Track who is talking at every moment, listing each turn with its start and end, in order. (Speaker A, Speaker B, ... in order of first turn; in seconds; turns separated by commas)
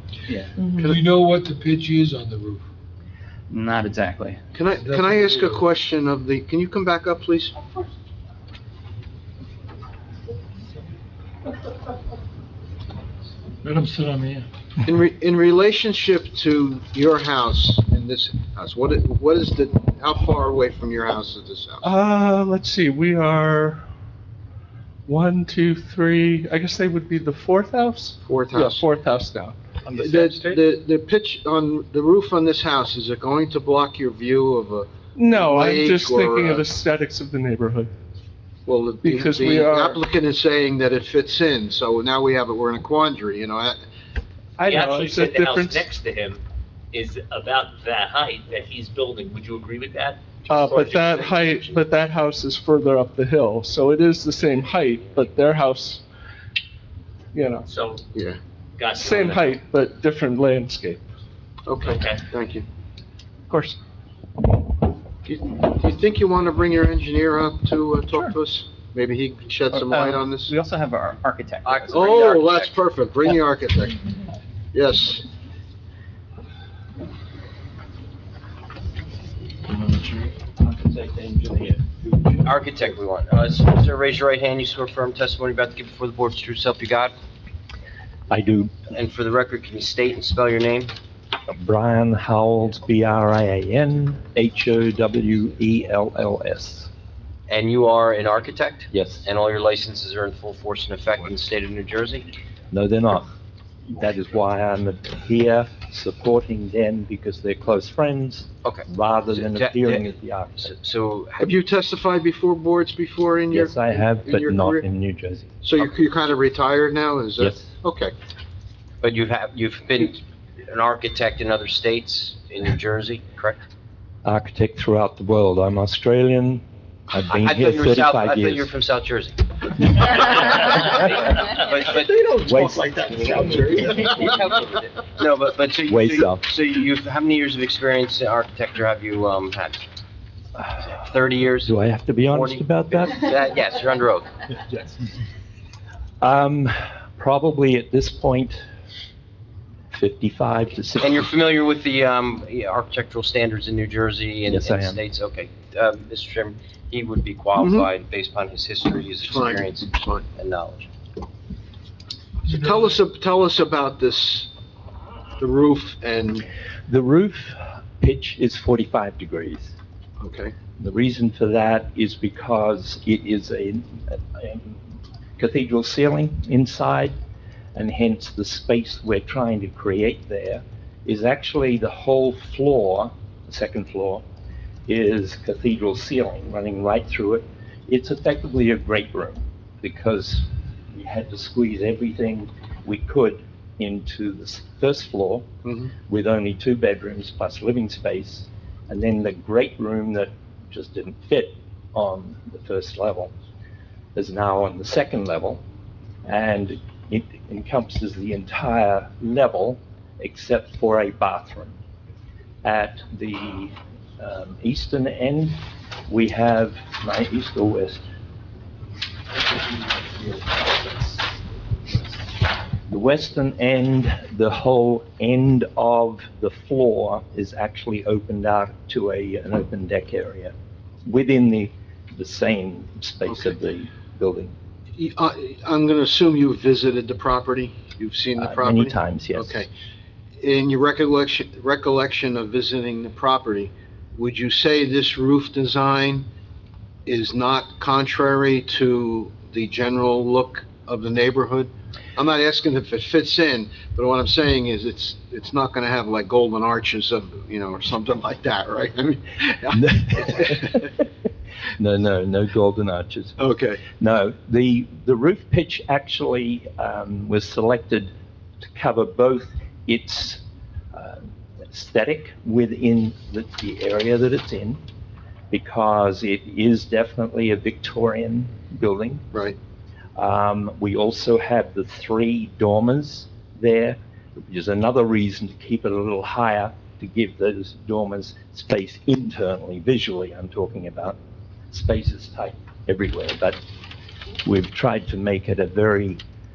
Speaker A: 0.3-0.6, Speaker B: 0.7-2.6, Speaker A: 3.5-4.4, Speaker C: 4.5-7.5, Speaker B: 4.7-5.7, Speaker B: 13.6-14.4, Speaker C: 14.8-21.9, Speaker D: 21.8-23.8, Speaker D: 25.1-29.6, Speaker C: 28.2-28.9, Speaker C: 29.9-36.6, Speaker A: 29.9-30.2, Speaker D: 35.1-37.9, Speaker C: 38.6-43.8, Speaker D: 39.0-40.0, Speaker D: 44.6-45.9, Speaker E: 44.6-51.7, Speaker D: 50.5-56.0, Speaker D: 57.3-57.6, Speaker E: 57.6-58.0, Speaker C: 58.1-58.4, Speaker E: 58.8-59.6, Speaker D: 58.9-61.0, Speaker C: 61.6-62.7, Speaker E: 61.8-62.2, Speaker D: 63.5-63.8, Speaker C: 65.2-70.5, Speaker A: 69.7-72.2, Speaker F: 71.6-72.7, Speaker C: 71.9-74.0, Speaker C: 74.7-75.2, Speaker G: 79.9-82.7, Speaker F: 82.4-87.1, Speaker G: 88.3-88.7, Speaker F: 88.9-90.9, Speaker G: 91.5-96.9, Speaker F: 97.5-102.3, Speaker G: 98.9-99.2, Speaker G: 102.7-103.3, Speaker G: 103.9-110.7, Speaker F: 108.6-111.5, Speaker C: 111.4-114.8, Speaker G: 113.5-115.5, Speaker C: 115.6-118.1, Speaker G: 117.4-117.7, Speaker F: 119.0-123.6, Speaker G: 124.2-128.7, Speaker F: 127.3-129.3, Speaker F: 130.0-132.2, Speaker B: 132.4-133.0, Speaker G: 132.4-134.3, Speaker F: 133.0-139.8, Speaker G: 135.9-136.4, Speaker F: 140.9-141.7, Speaker G: 141.6-143.3, Speaker F: 142.3-144.3, Speaker G: 146.2-148.6, Speaker G: 149.9-151.3, Speaker F: 151.0-160.9, Speaker G: 154.5-155.0, Speaker C: 157.6-157.9, Speaker C: 159.2-160.2, Speaker C: 162.4-164.5, Speaker C: 165.4-166.5, Speaker G: 166.9-169.7, Speaker C: 170.2-170.5, Speaker G: 170.8-174.8, Speaker G: 175.4-177.2, Speaker G: 177.7-184.2, Speaker G: 184.9-195.5, Speaker C: 195.6-195.9, Speaker G: 196.1-203.3, Speaker G: 204.1-205.6, Speaker G: 206.2-211.7, Speaker G: 212.6-218.0, Speaker G: 219.9-221.2, Speaker G: 222.9-230.5, Speaker G: 231.1-234.5, Speaker C: 234.9-239.7, Speaker G: 238.4-239.6, Speaker C: 240.4-246.3, Speaker C: 247.1-260.9, Speaker G: 259.7-260.9, Speaker G: 261.8-263.4, Speaker C: 263.4-263.8, Speaker G: 263.9-270.4, Speaker G: 270.9-271.2, Speaker G: 271.7-274.8, Speaker G: 275.5-279.3, Speaker G: 280.1-291.2, Speaker G: 291.7-293.6, Speaker G: 294.4-296.2